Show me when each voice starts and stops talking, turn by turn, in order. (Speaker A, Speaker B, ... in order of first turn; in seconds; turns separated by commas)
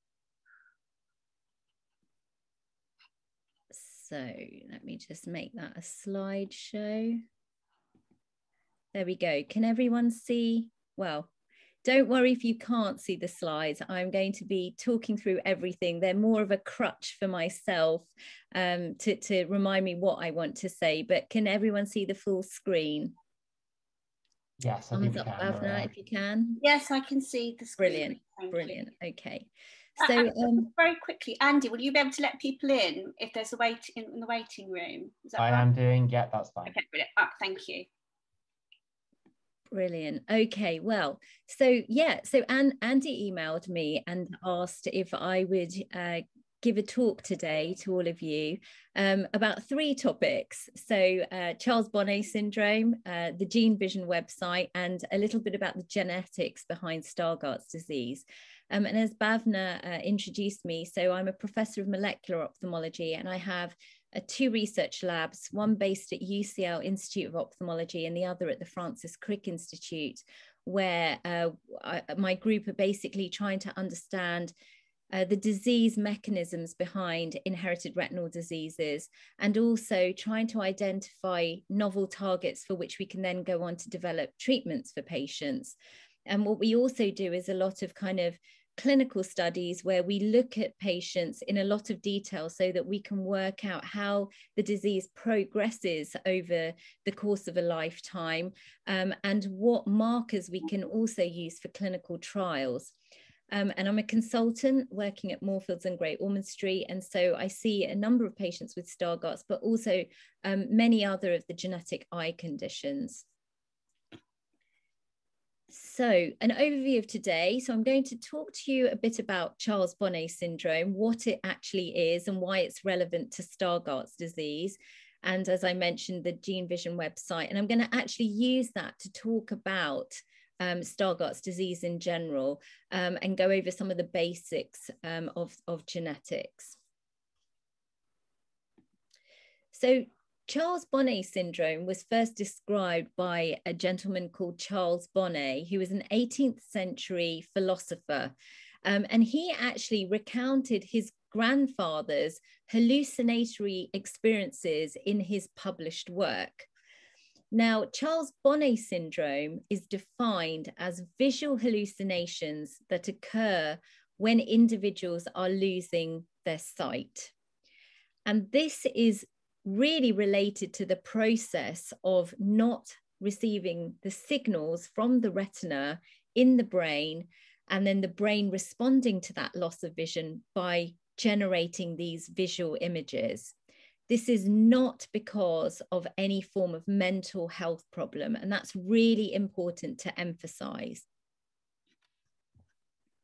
Speaker A: 3.7-7.2, Speaker A: 8.9-11.3, Speaker A: 11.8-23.1, Speaker B: 24.6-25.9, Speaker A: 24.9-26.6, Speaker C: 26.6-28.8, Speaker A: 27.8-29.5, Speaker A: 30.0-30.7, Speaker C: 30.0-35.7, Speaker B: 35.4-36.8, Speaker C: 36.7-37.9, Speaker A: 39.7-74.5, Speaker A: 75.1-85.8, Speaker A: 86.3-102.9, Speaker A: 103.5-113.2, Speaker A: 115.7-136.8, Speaker A: 139.7-148.3, Speaker A: 148.8-156.7, Speaker A: 157.5-167.3, Speaker A: 168.3-183.5, Speaker A: 184.1-191.1